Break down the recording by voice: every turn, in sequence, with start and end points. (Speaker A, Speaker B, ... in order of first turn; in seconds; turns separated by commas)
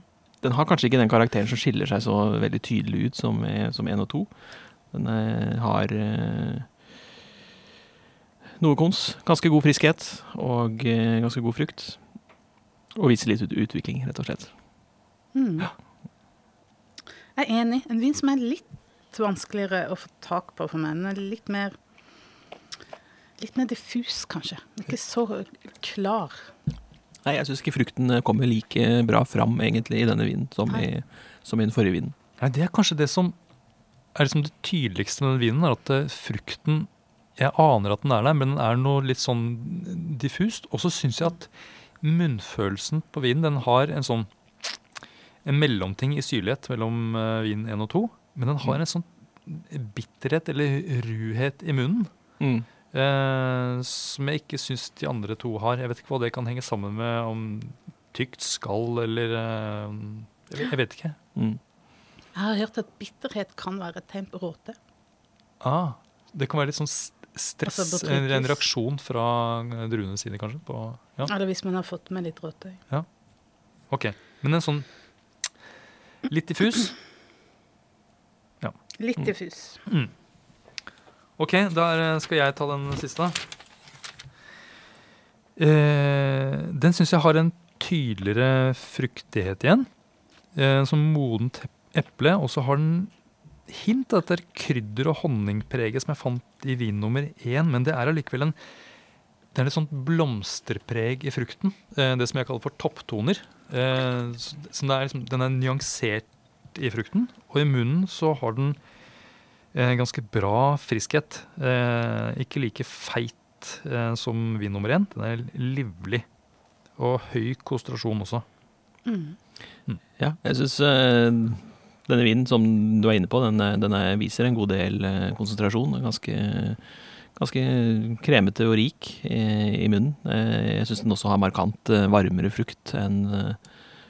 Speaker A: 0.4-4.3, Speaker A: 4.9-6.7, Speaker A: 8.6-12.1, Speaker A: 12.9-14.5, Speaker B: 15.3-15.7, Speaker B: 17.4-21.8, Speaker B: 23.4-26.5, Speaker A: 27.2-32.1, Speaker C: 32.4-33.4, Speaker C: 34.1-44.8, Speaker C: 45.4-52.1, Speaker A: 52.4-52.7, Speaker C: 52.9-61.2, Speaker B: 62.3-64.8, Speaker C: 65.6-71.3, Speaker B: 67.6-68.6, Speaker B: 71.2-72.8, Speaker C: 73.9-74.9, Speaker C: 76.3-77.0, Speaker B: 79.0-79.8, Speaker C: 79.8-80.1, Speaker C: 81.4-83.4, Speaker C: 85.6-89.9, Speaker C: 90.5-93.1, Speaker C: 93.7-98.5, Speaker C: 99.5-108.8, Speaker C: 109.7-116.2, Speaker C: 117.0-118.4, Speaker B: 119.0-119.4, Speaker A: 120.2-133.6